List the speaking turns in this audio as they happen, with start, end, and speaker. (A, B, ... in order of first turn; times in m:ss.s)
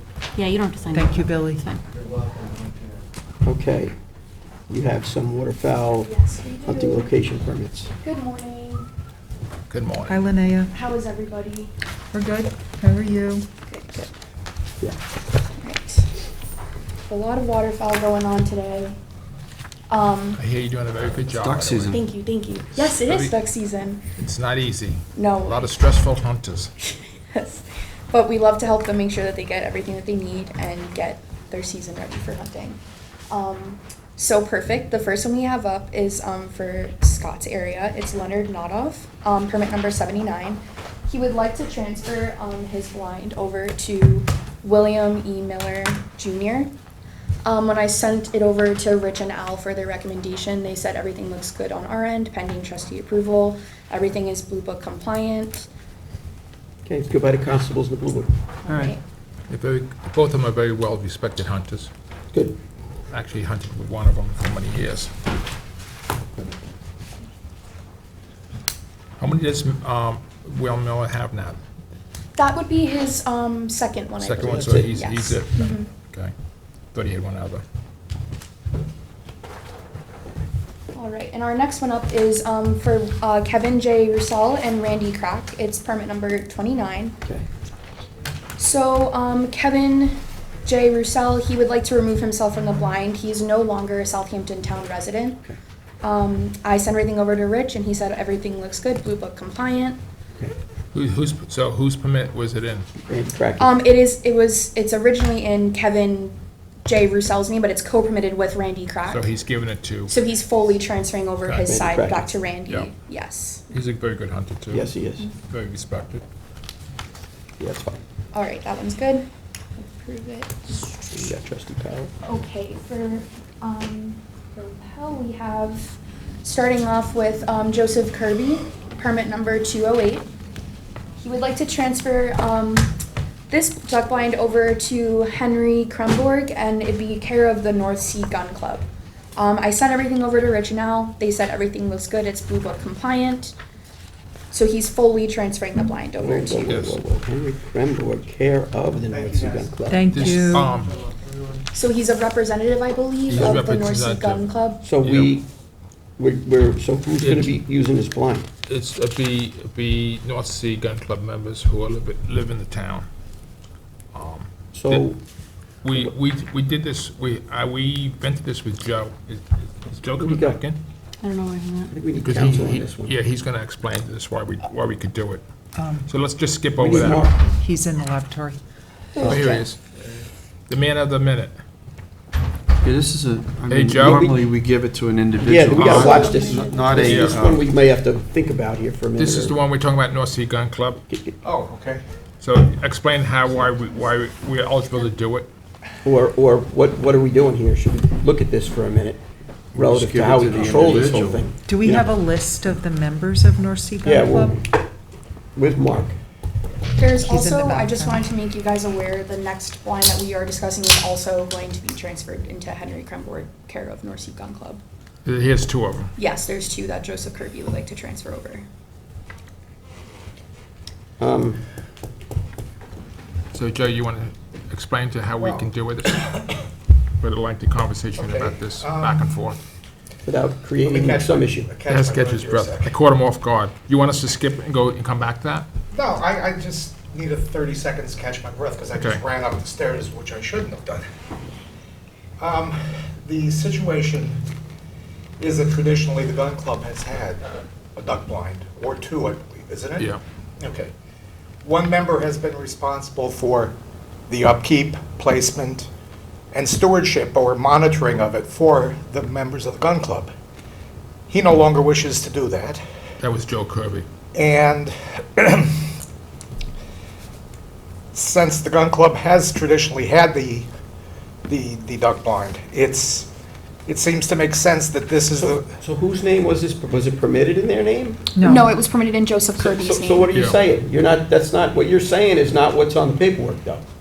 0:00.3-0:01.8 A
0:00.9-0:01.6 B
0:03.4-0:03.9 C
0:04.7-0:06.1 C
0:06.0-0:07.1 D
0:06.6-0:07.9 C
0:08.0-0:08.9 D
0:09.7-0:10.2 E
0:10.1-0:10.7 B
0:10.7-0:11.7 D
0:12.1-0:13.4 B
0:13.7-0:14.1 D
0:15.6-0:16.1 D
0:17.1-0:19.0 D
0:19.9-0:20.4 D
0:20.4-0:21.9 E
0:21.2-0:22.0 F
0:21.9-0:24.0 D
0:22.8-0:23.4 E
0:24.2-0:26.7 E
0:25.1-0:25.8 D
0:26.8-0:32.8 D
0:33.3-0:46.7 D
0:47.4-0:55.7 D
0:56.8-0:58.3 C
0:58.7-0:58.9 B
0:59.5-1:01.9 E
1:03.1-1:05.1 E
1:09.2-1:11.6 E
1:12.4-1:15.9 D
1:14.2-1:16.3 E
1:14.4-1:14.9 C
1:16.9-1:17.6 E
1:20.9-1:27.2 D
1:28.6-1:35.4 D
1:36.0-1:40.0 D
1:40.9-1:42.9 E
1:43.0-1:43.8 C
1:43.6-1:49.3 D
1:49.0-1:50.1 E
1:50.1-1:53.6 D
1:51.4-1:51.8 E
1:51.7-1:52.3 C
1:53.7-1:54.9 E
1:54.7-1:55.3 C
1:55.5-1:56.2 E
1:57.6-1:58.0 C
1:58.3-1:59.3 D
1:59.8-2:01.1 D
2:01.1-2:02.1 C
2:02.2-2:10.3 D
2:11.2-2:13.0 D
2:13.5-2:23.5 D
2:24.5-2:26.7 D
2:26.2-2:30.5 C
2:26.6-2:27.0 E
2:29.1-2:29.7 D
2:29.9-2:30.7 B
2:30.1-2:31.0 E
2:30.4-2:30.6 D
2:31.7-2:34.8 D
2:33.3-2:35.4 E
2:33.3-2:33.6 C
2:34.8-2:35.5 C
2:36.2-2:38.5 C
2:37.2-2:37.5 E
2:38.7-2:43.1 E
2:44.1-2:45.1 E
2:44.7-2:45.2 C
2:45.8-2:50.8 E
2:50.2-2:50.6 C
2:51.2-2:51.9 A
2:51.9-2:53.2 C
2:52.2-2:55.4 E
2:55.7-2:56.1 B
2:56.0-2:57.2 E
2:56.7-2:57.6 C
2:57.5-2:58.6 B
2:59.2-2:59.6 C
2:59.2-2:59.6 D
2:59.2-2:59.8 E
3:00.7-3:01.5 E
3:02.8-3:07.6 F
3:03.7-3:04.3 E
3:05.4-3:09.5 C
3:05.8-3:06.2 E
3:05.8-3:07.1 D
3:07.0-3:07.6 E
3:09.2-3:11.0 E
3:11.1-3:11.4 C
3:11.4-3:12.0 G
3:12.4-3:15.5 E
3:16.0-3:19.2 C
3:19.7-3:22.1 C
3:19.7-3:21.4 F
3:21.6-3:24.6 B
3:24.0-3:24.8 C
3:25.5-3:26.2 C
3:27.0-3:34.8 D
3:27.2-3:28.2 B
3:35.2-3:36.1 E
3:36.2-3:38.6 D
3:41.2-3:41.6 C
3:43.5-3:46.6 E
3:47.2-3:49.6 E
3:48.2-3:49.2 G
3:50.2-3:51.7 C
3:50.9-3:52.9 G
3:51.9-3:55.7 E
3:55.9-4:01.0 G
3:58.9-3:59.2 E
4:02.4-4:04.4 G
4:05.4-4:07.4 G
4:08.0-4:10.9 G
4:10.0-4:10.2 E
4:11.6-4:13.8 G
4:14.3-4:15.9 G
4:16.5-4:20.3 G
4:21.3-4:22.8 G
4:23.2-4:24.0 E
4:24.3-4:25.9 G
4:28.1-4:30.7 G
4:31.5-4:33.3 G
4:33.8-4:35.6 G
4:35.4-4:38.3 C
4:38.4-4:38.8 B
4:38.4-4:40.3 D
4:39.6-4:43.8 C
4:40.3-4:40.6 E